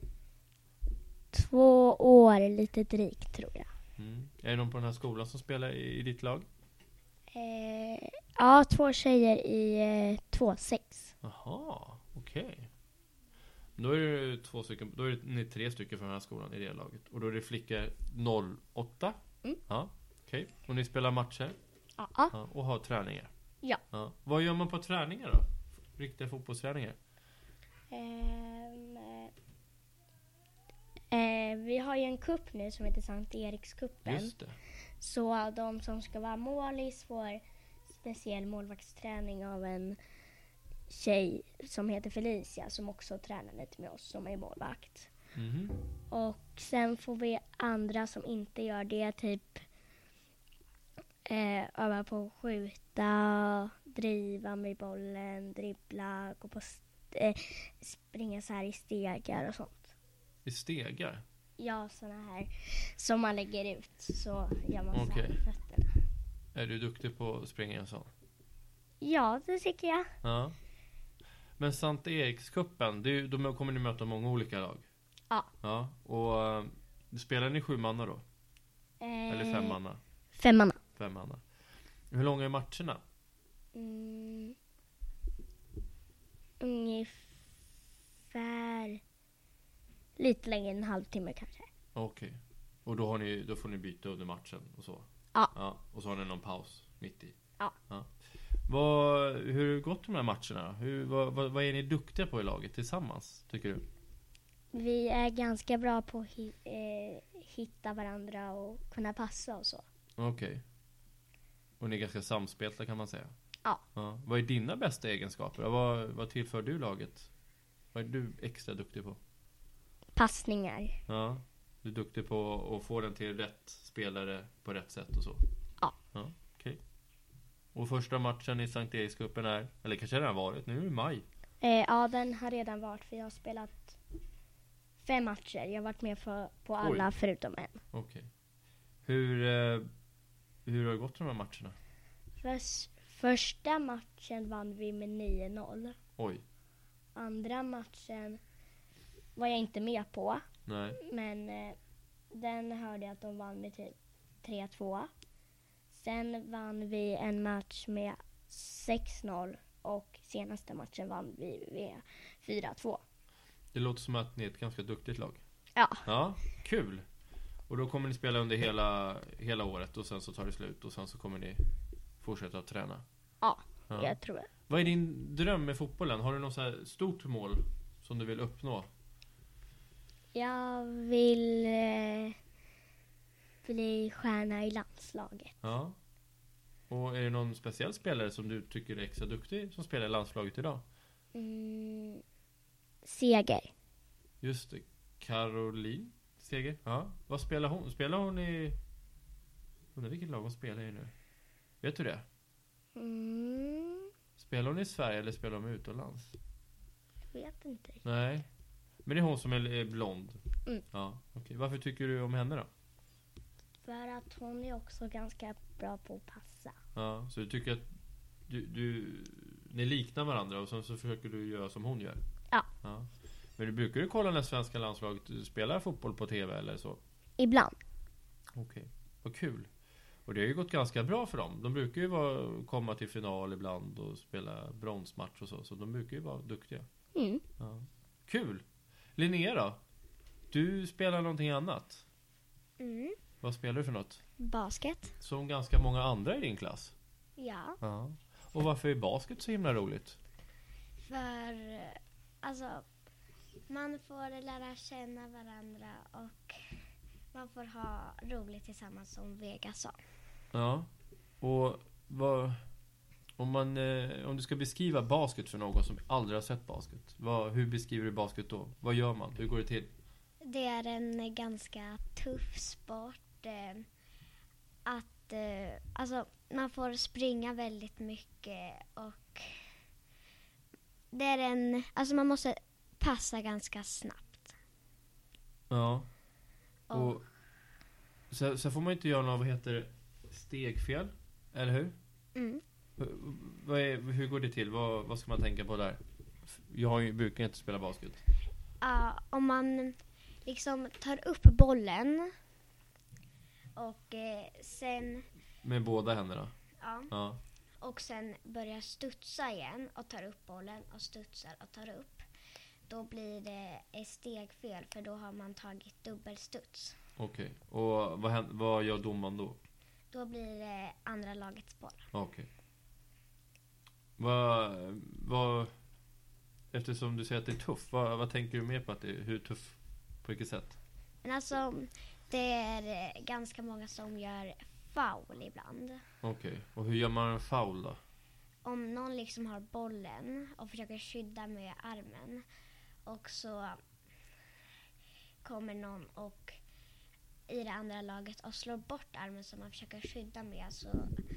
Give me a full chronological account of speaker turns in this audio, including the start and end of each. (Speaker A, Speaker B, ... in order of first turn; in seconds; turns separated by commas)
Speaker A: 1.3-3.7, Speaker B: 4.0-6.5, Speaker A: 7.3-11.1, Speaker B: 11.2-12.7, Speaker B: 13.8-21.6, Speaker A: 22.0-22.3, Speaker B: 22.3-23.3, Speaker B: 23.9-27.0, Speaker A: 27.9-29.3, Speaker A: 31.1-34.3, Speaker B: 34.0-34.6, Speaker A: 35.0-37.4, Speaker A: 37.9-40.0, Speaker A: 40.9-45.1, Speaker B: 45.4-45.8, Speaker A: 46.1-49.6, Speaker A: 51.3-59.9, Speaker B: 60.5-61.2, Speaker A: 61.6-66.0, Speaker B: 64.9-65.4, Speaker B: 66.5-68.1, Speaker A: 69.0-70.1, Speaker B: 70.2-70.5, Speaker B: 71.6-74.9, Speaker B: 75.6-78.2, Speaker A: 79.0-79.8, Speaker B: 79.3-80.0, Speaker A: 80.4-80.8, Speaker B: 81.0-81.4, Speaker B: 82.1-83.0, Speaker A: 83.8-84.6, Speaker A: 86.6-87.3, Speaker A: 88.3-89.0, Speaker A: 90.2-91.7, Speaker B: 92.0-97.3, Speaker B: 98.7-103.8, Speaker A: 104.7-109.8, Speaker B: 110.2-110.6, Speaker B: 111.8-113.3, Speaker B: 114.0-117.3, Speaker B: 117.9-119.2, Speaker A: 120.2-121.0, Speaker B: 121.1-125.4, Speaker B: 126.1-126.8, Speaker B: 127.8-131.2, Speaker A: 131.6-134.0, Speaker A: 135.0-137.8, Speaker B: 136.8-137.1, Speaker B: 137.9-138.3, Speaker B: 139.0-139.9, Speaker B: 140.7-141.8, Speaker A: 142.4-146.0, Speaker B: 146.2-146.4, Speaker A: 147.2-148.4, Speaker A: 149.4-150.4, Speaker B: 150.7-151.0, Speaker A: 151.0-151.8, Speaker A: 152.3-155.1, Speaker A: 155.9-163.0, Speaker B: 163.7-165.4, Speaker A: 165.8-166.1, Speaker B: 166.1-167.0, Speaker B: 167.7-171.6, Speaker B: 172.2-173.0, Speaker A: 173.4-174.5, Speaker B: 173.9-174.2, Speaker B: 174.7-178.9, Speaker A: 180.3-182.4, Speaker A: 183.7-185.6, Speaker B: 185.6-186.0, Speaker B: 186.9-190.8, Speaker A: 191.3-192.2, Speaker A: 193.1-193.7, Speaker B: 194.4-198.8, Speaker B: 199.9-201.1, Speaker B: 201.8-202.2, Speaker A: 203.0-204.1, Speaker B: 204.4-206.3, Speaker A: 207.3-208.0, Speaker B: 208.1-208.5, Speaker B: 209.1-210.4, Speaker B: 210.9-212.7, Speaker A: 213.8-216.8, Speaker B: 216.9-217.9, Speaker B: 218.5-222.2, Speaker B: 222.8-227.0, Speaker A: 227.4-227.8, Speaker B: 228.6-229.7, Speaker B: 230.3-236.8, Speaker A: 237.2-237.4, Speaker B: 237.6-238.6, Speaker B: 239.2-239.8, Speaker B: 240.5-242.0, Speaker C: 242.8-243.2, Speaker B: 243.4-244.2, Speaker C: 244.4-245.1, Speaker B: 245.2-246.9, Speaker C: 247.4-247.8, Speaker B: 247.8-250.2, Speaker C: 251.0-252.8, Speaker C: 253.7-256.8, Speaker C: 257.3-260.0, Speaker B: 260.5-260.9, Speaker B: 261.4-262.6, Speaker B: 263.4-269.9, Speaker C: 270.4-273.9, Speaker C: 274.9-279.6, Speaker C: 281.1-284.6, Speaker B: 285.7-286.1, Speaker C: 286.9-287.2, Speaker B: 286.9-287.2, Speaker B: 288.3-291.9, Speaker C: 292.4-292.6, Speaker B: 293.0-298.2, Speaker C: 298.8-302.3, Speaker C: 303.8-305.2, Speaker B: 305.6-306.5, Speaker C: 306.8-307.1, Speaker B: 307.1-307.4, Speaker C: 307.8-312.2, Speaker C: 312.9-317.0, Speaker B: 317.2-319.6, Speaker C: 320.1-322.1, Speaker B: 322.1-322.5, Speaker B: 324.2-325.7, Speaker B: 326.7-330.8, Speaker C: 331.2-336.0, Speaker B: 336.2-338.0, Speaker C: 338.6-342.4, Speaker C: 343.1-343.8, Speaker C: 345.4-346.6, Speaker C: 347.5-351.1